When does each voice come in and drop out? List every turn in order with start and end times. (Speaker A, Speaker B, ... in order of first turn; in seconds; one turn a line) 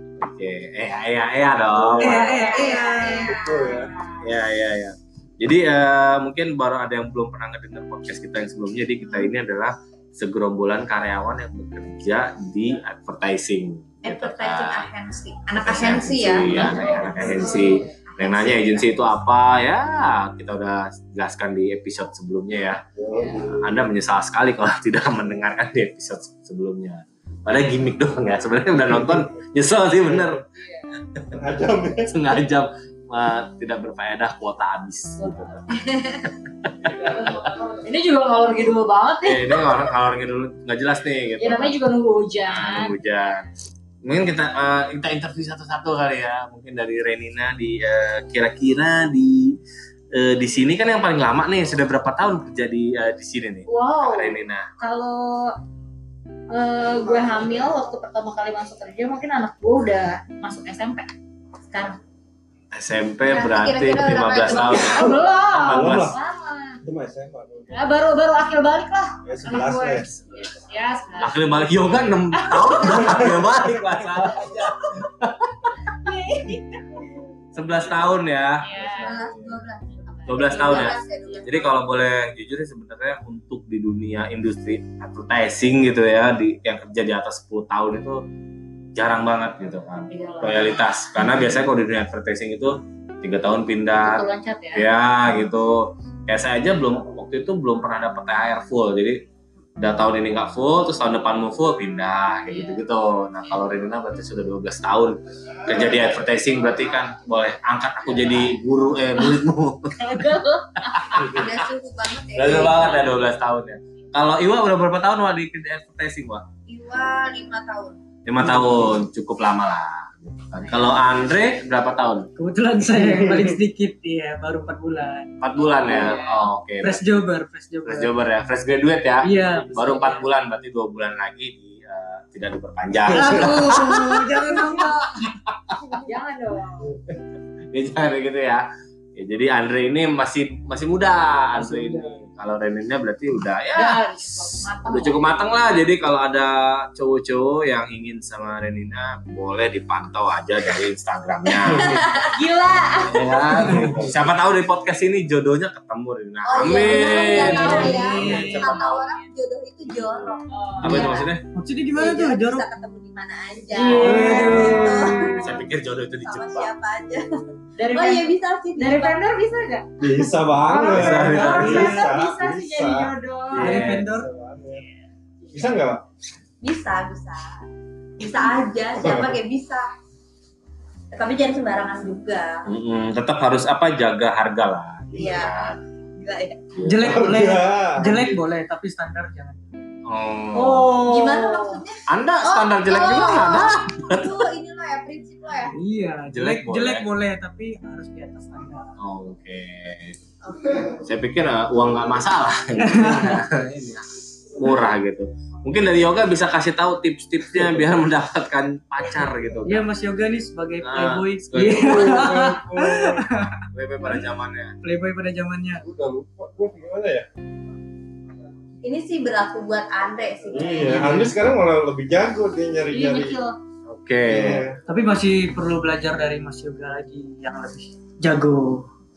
Speaker A: 0.2-2.5
Speaker B: 1.8-2.3
Speaker C: 2.0-3.4
Speaker D: 2.4-3.9
Speaker E: 2.6-4.0
Speaker B: 3.2-3.9
Speaker A: 4.2-14.9
Speaker D: 14.0-19.0
Speaker A: 15.6-22.8
Speaker E: 16.4-17.9
Speaker B: 23.0-23.7
Speaker E: 23.1-23.5
Speaker A: 23.6-30.4
Speaker B: 28.9-29.2
Speaker B: 30.1-30.4
Speaker E: 30.6-30.9
Speaker B: 31.3-32.1
Speaker A: 32.0-35.8
Speaker E: 35.2-36.2
Speaker A: 36.6-37.4
Speaker E: 36.9-39.8
Speaker A: 39.2-41.8
Speaker E: 41.4-43.0
Speaker A: 42.5-43.5
Speaker A: 44.0-49.6
Speaker A: 50.1-54.7
Speaker E: 53.7-55.5
Speaker E: 56.5-61.1
Speaker E: 61.7-62.0
Speaker A: 62.7-66.2
Speaker D: 63.3-65.1
Speaker E: 64.5-66.8
Speaker B: 65.5-66.2
Speaker B: 66.8-67.9
Speaker E: 67.7-71.4
Speaker B: 69.2-70.2
Speaker A: 71.2-75.7
Speaker E: 72.3-73.2
Speaker B: 73.0-73.5
Speaker E: 75.9-76.8
Speaker A: 77.5-78.7
Speaker E: 78.6-79.2
Speaker B: 78.8-79.5
Speaker D: 79.0-81.8
Speaker E: 80.2-81.0
Speaker A: 80.3-88.2
Speaker A: 88.9-99.2
Speaker E: 90.1-90.8
Speaker E: 94.0-94.9
Speaker A: 99.8-110.1
Speaker E: 102.5-102.8
Speaker E: 110.0-111.3
Speaker A: 110.9-111.6
Speaker D: 111.2-113.1
Speaker A: 112.3-116.4
Speaker D: 116.7-118.0
Speaker A: 118.2-122.3
Speaker C: 122.4-126.2
Speaker B: 123.0-123.5
Speaker A: 125.4-127.0
Speaker E: 125.8-126.5
Speaker C: 126.8-128.1
Speaker A: 127.8-134.5
Speaker C: 129.2-130.2
Speaker C: 133.1-135.3
Speaker A: 135.2-136.0
Speaker E: 135.9-136.9
Speaker A: 137.7-138.7
Speaker A: 139.2-144.0
Speaker C: 141.6-142.2
Speaker E: 143.8-145.4
Speaker A: 144.8-152.2
Speaker D: 151.8-152.3
Speaker E: 152.2-153.6
Speaker A: 153.1-158.8
Speaker D: 156.4-161.3
Speaker E: 156.7-159.1
Speaker C: 157.4-158.8
Speaker B: 158.2-158.6
Speaker E: 160.5-161.2
Speaker A: 160.8-161.4
Speaker C: 161.5-162.7
Speaker D: 161.9-165.5
Speaker E: 163.7-165.4
Speaker C: 163.8-165.4
Speaker A: 163.9-166.7
Speaker D: 166.2-167.3
Speaker E: 167.8-169.9
Speaker D: 167.8-169.3
Speaker B: 170.0-173.1
Speaker E: 170.7-173.8
Speaker A: 170.9-172.0
Speaker C: 171.6-172.1
Speaker A: 173.5-174.1
Speaker C: 173.6-174.3
Speaker B: 173.7-174.8
Speaker B: 175.5-176.0
Speaker D: 176.6-177.5
Speaker D: 178.2-179.9
Speaker B: 178.9-179.4
Speaker D: 181.1-182.7
Speaker A: 182.7-185.8
Speaker D: 185.1-186.6
Speaker A: 186.8-187.2
Speaker C: 186.8-189.6
Speaker B: 187.0-188.4
Speaker A: 190.1-190.9
Speaker E: 190.5-191.8
Speaker D: 191.1-195.8
Speaker A: 192.1-194.4
Speaker C: 195.7-198.9
Speaker A: 196.3-197.1
Speaker A: 199.0-200.2
Speaker D: 200.5-200.9
Speaker A: 200.8-209.9
Speaker C: 202.8-203.4
Speaker C: 209.7-213.7
Speaker A: 210.8-212.3
Speaker B: 211.7-213.2
Speaker A: 213.7-214.7
Speaker C: 214.8-215.8
Speaker B: 215.8-217.2
Speaker D: 218.8-221.3
Speaker B: 220.5-223.4
Speaker C: 220.9-221.3
Speaker E: 222.9-223.6
Speaker A: 223.9-224.7
Speaker B: 224.3-224.8
Speaker C: 224.9-228.9